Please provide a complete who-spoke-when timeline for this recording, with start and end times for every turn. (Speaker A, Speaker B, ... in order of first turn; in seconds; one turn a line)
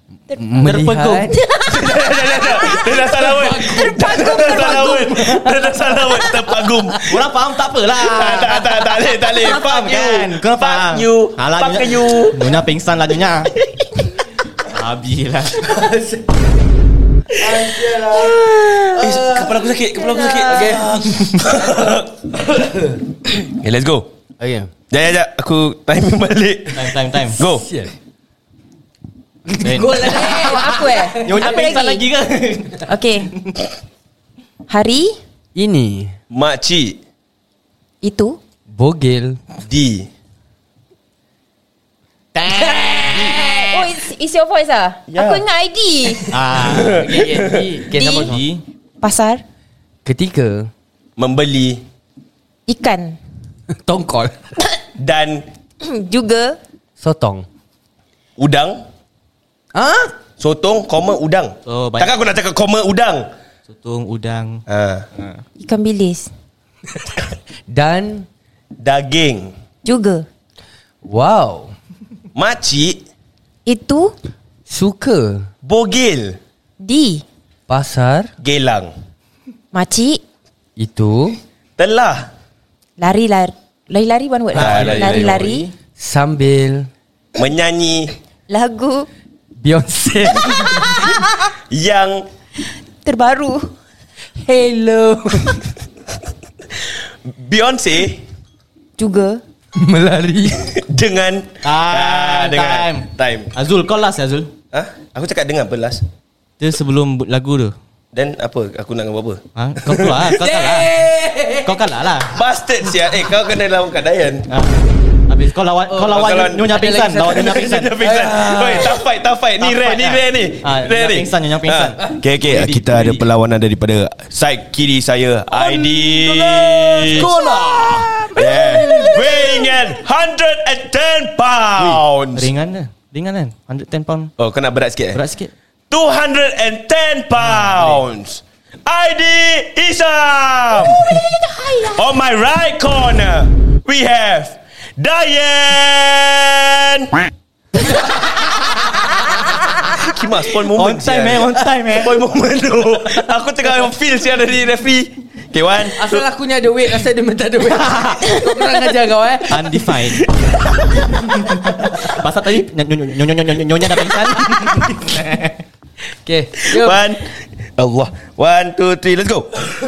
Speaker A: 0.3-1.4
Speaker B: 0.6-1.4
Speaker C: 1.3-1.8
Speaker D: 1.6-7.2
Speaker A: 2.8-5.6
Speaker B: 4.4-5.6
Speaker B: 7.0-13.5
Speaker D: 8.0-12.5
Speaker B: 14.6-15.7
Speaker A: 15.6-16.4
Speaker A: 17.4-19.6
Speaker D: 18.9-22.4
Speaker A: 20.1-21.9
Speaker A: 22.6-23.0
Speaker D: 23.2-24.1
Speaker A: 24.4-24.7
Speaker D: 24.9-27.7
Speaker B: 26.8-27.4
Speaker A: 27.4-27.9
Speaker A: 29.5-31.7
Speaker B: 29.5-30.6
Speaker C: 30.2-32.0
Speaker B: 31.2-32.9
Speaker C: 32.9-33.3
Speaker C: 34.7-35.2
Speaker A: 35.5-36.1
Speaker D: 36.3-37.0
Speaker C: 38.0-38.4
Speaker A: 38.7-39.4
Speaker D: 39.6-40.1
Speaker A: 42.4-43.8
Speaker B: 43.0-43.3
Speaker C: 43.1-46.4
Speaker D: 45.1-45.4
Speaker B: 46.3-47.3
Speaker D: 46.6-47.7
Speaker A: 46.7-48.4
Speaker C: 47.9-48.4
Speaker B: 48.1-48.6
Speaker C: 49.0-49.4
Speaker A: 50.0-50.7
Speaker D: 51.2-51.8
Speaker C: 52.7-53.2
Speaker A: 53.7-54.5
Speaker D: 55.0-55.5
Speaker C: 55.8-56.6
Speaker A: 57.0-57.5
Speaker D: 58.4-58.8
Speaker A: 59.7-60.1
Speaker D: 60.4-63.3
Speaker B: 61.7-62.1
Speaker B: 63.7-64.6
Speaker D: 64.7-65.1
Speaker B: 65.2-65.4
Speaker C: 65.6-66.3
Speaker A: 67.7-68.3
Speaker D: 68.8-69.5
Speaker C: 69.8-70.3
Speaker A: 71.0-71.7
Speaker D: 72.3-73.0
Speaker C: 73.7-74.1
Speaker A: 74.7-75.5
Speaker D: 75.6-76.4
Speaker C: 76.8-77.2
Speaker A: 77.7-78.3
Speaker D: 78.4-78.9
Speaker C: 79.7-80.2
Speaker A: 80.8-81.4
Speaker D: 81.8-82.3
Speaker C: 83.0-85.7
Speaker B: 84.5-85.7
Speaker A: 84.6-85.4
Speaker D: 84.6-84.9
Speaker A: 86.0-86.9
Speaker D: 87.3-88.2
Speaker C: 88.5-89.1
Speaker A: 89.6-91.3
Speaker D: 91.7-92.2
Speaker C: 93.0-93.7
Speaker A: 94.4-95.7
Speaker D: 97.2-98.2
Speaker C: 99.0-99.4
Speaker A: 99.8-100.8
Speaker D: 100.8-103.5
Speaker B: 101.6-104.5
Speaker D: 104.7-106.0
Speaker B: 106.6-107.8
Speaker D: 108.1-110.2
Speaker B: 109.6-111.0
Speaker A: 110.4-111.9
Speaker B: 111.6-112.3
Speaker D: 112.3-114.5
Speaker B: 114.5-117.9
Speaker A: 115.9-119.0
Speaker D: 116.0-127.3
Speaker B: 119.6-123.3
Speaker A: 125.5-127.3
Speaker B: 127.0-129.0
Speaker A: 127.8-129.6
Speaker D: 128.3-132.5
Speaker B: 131.8-134.3
Speaker D: 134.4-135.2
Speaker B: 135.1-135.5
Speaker D: 135.9-141.1
Speaker B: 137.4-138.0
Speaker D: 141.9-147.3
Speaker D: 149.8-156.2
Speaker B: 150.7-152.1
Speaker A: 156.0-160.0
Speaker B: 157.7-158.4
Speaker B: 159.5-160.3
Speaker D: 160.2-160.8
Speaker B: 161.2-165.6
Speaker A: 166.2-167.0
Speaker D: 166.7-169.5